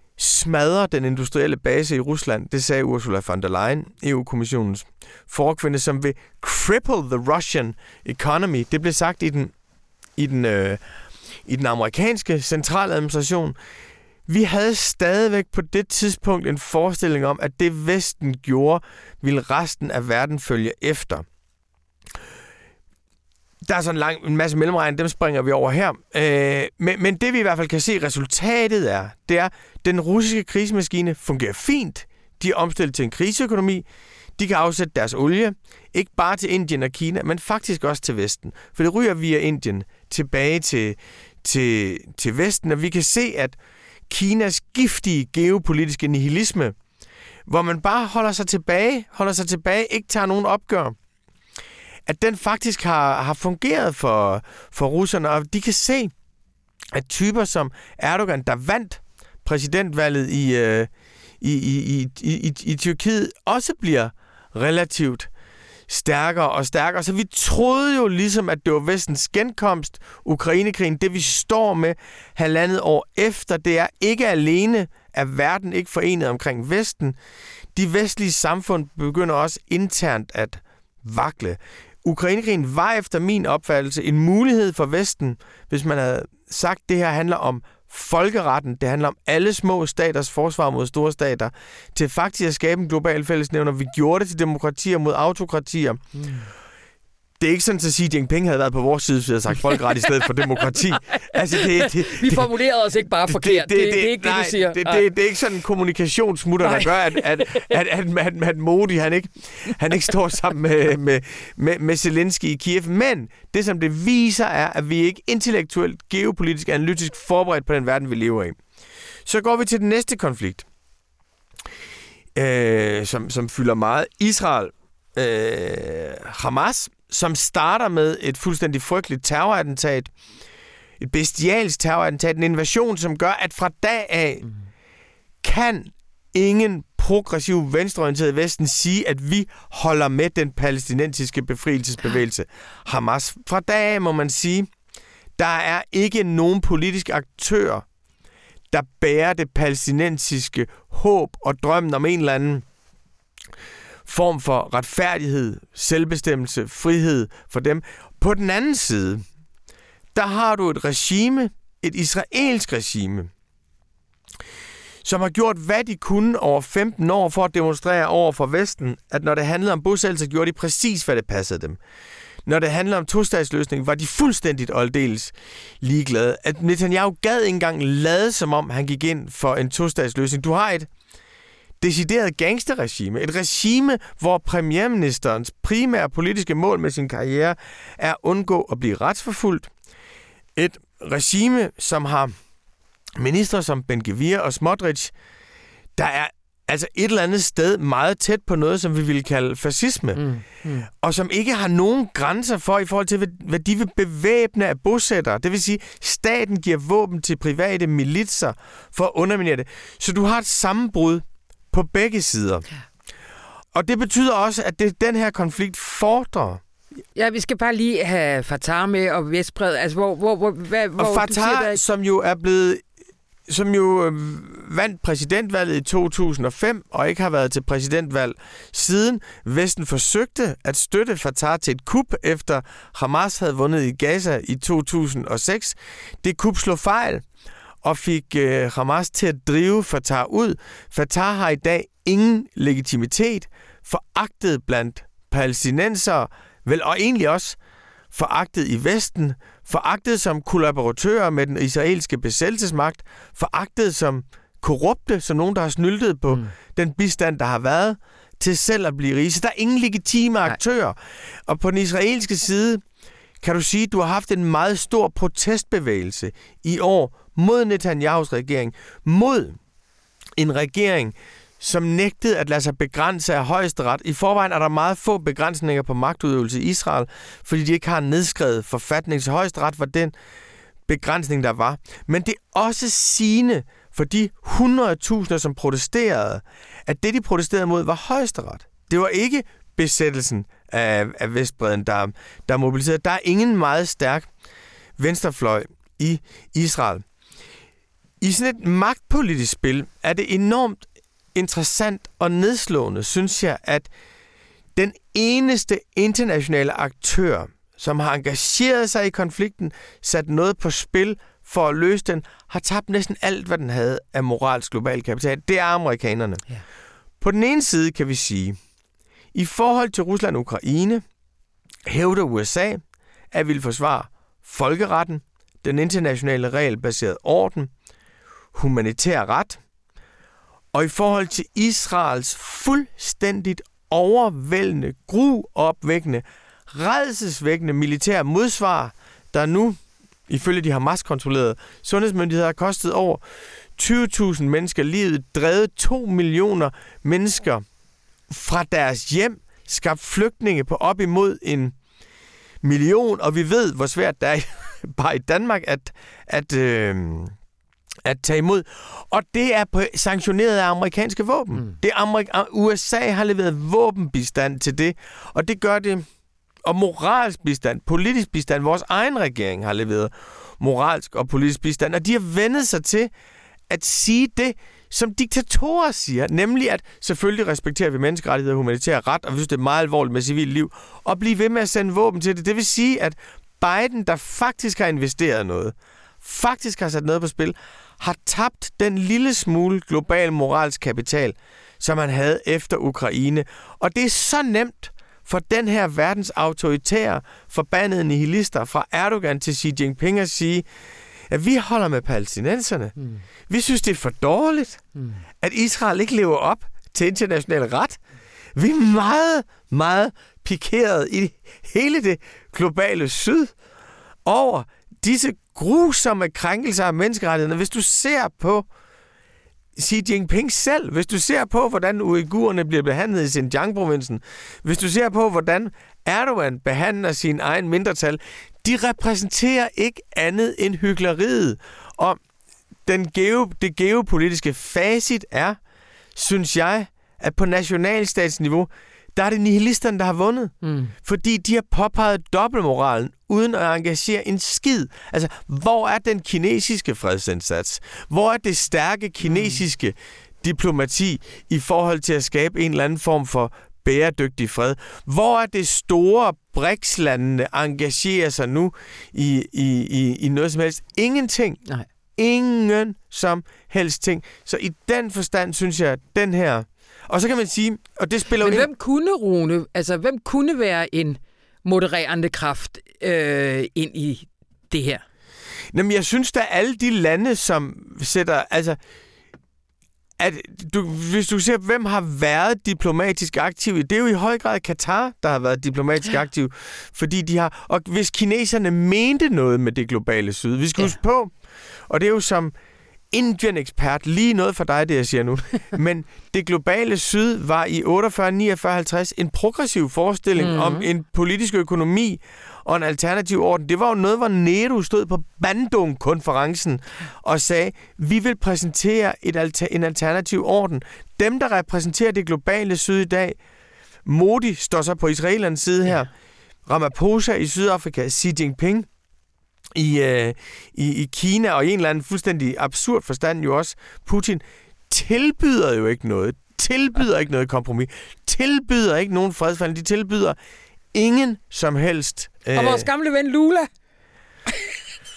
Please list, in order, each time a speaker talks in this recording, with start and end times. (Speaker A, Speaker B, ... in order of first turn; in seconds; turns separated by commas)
Speaker A: 0.2-9.5, Speaker A: 10.2-10.8, Speaker A: 11.5-13.6, Speaker A: 14.3-21.3, Speaker A: 23.6-33.9, Speaker A: 34.4-43.6, Speaker A: 44.1-46.8, Speaker A: 47.5-51.0, Speaker A: 52.1-56.1, Speaker A: 56.9-60.9, Speaker A: 61.4-65.3, Speaker A: 65.9-77.2, Speaker A: 77.8-96.0, Speaker B: 96.2-96.5, Speaker A: 97.4-102.5, Speaker B: 100.7-105.1, Speaker A: 103.3-118.6, Speaker B: 106.6-107.7, Speaker A: 119.2-120.7, Speaker A: 122.3-130.1, Speaker A: 131.0-134.5, Speaker A: 135.4-144.7, Speaker A: 145.4-147.8, Speaker A: 148.7-152.7, Speaker A: 154.1-159.2, Speaker A: 160.1-163.3, Speaker A: 165.0-171.8, Speaker A: 172.5-180.9, Speaker A: 181.8-189.7, Speaker A: 190.6-192.3, Speaker A: 193.2-195.1, Speaker A: 196.0-200.3, Speaker B: 200.2-200.9, Speaker A: 200.9-212.7, Speaker A: 213.7-216.6, Speaker B: 217.2-221.8, Speaker A: 221.0-222.8, Speaker A: 223.5-237.3, Speaker A: 237.8-247.6, Speaker A: 248.1-262.8, Speaker A: 263.4-269.6, Speaker A: 270.4-280.1, Speaker A: 280.9-294.3, Speaker A: 295.0-297.0, Speaker A: 298.2-303.9, Speaker A: 304.8-316.4, Speaker A: 317.2-318.6, Speaker A: 319.3-321.0, Speaker A: 321.9-322.8, Speaker A: 323.3-327.7, Speaker A: 328.5-329.6, Speaker A: 330.7-343.2, Speaker A: 343.8-347.6, Speaker A: 348.3-351.8, Speaker A: 352.6-357.4, Speaker A: 358.1-366.1, Speaker A: 366.6-373.1, Speaker A: 373.7-400.7, Speaker A: 401.3-403.0, Speaker A: 403.5-404.8, Speaker B: 405.0-405.2, Speaker A: 405.4-408.0, Speaker A: 408.6-413.6, Speaker A: 414.2-418.7, Speaker A: 419.8-432.2, Speaker A: 432.9-435.6, Speaker A: 436.1-461.6, Speaker B: 440.6-440.9, Speaker B: 449.2-449.6, Speaker A: 462.2-468.7, Speaker B: 468.4-475.0, Speaker A: 475.7-478.8, Speaker A: 480.2-491.3, Speaker A: 491.9-492.5, Speaker A: 493.1-513.4, Speaker B: 500.4-500.9, Speaker A: 514.1-516.1, Speaker A: 516.7-518.9, Speaker A: 519.8-530.4, Speaker A: 530.9-532.9, Speaker B: 532.5-533.7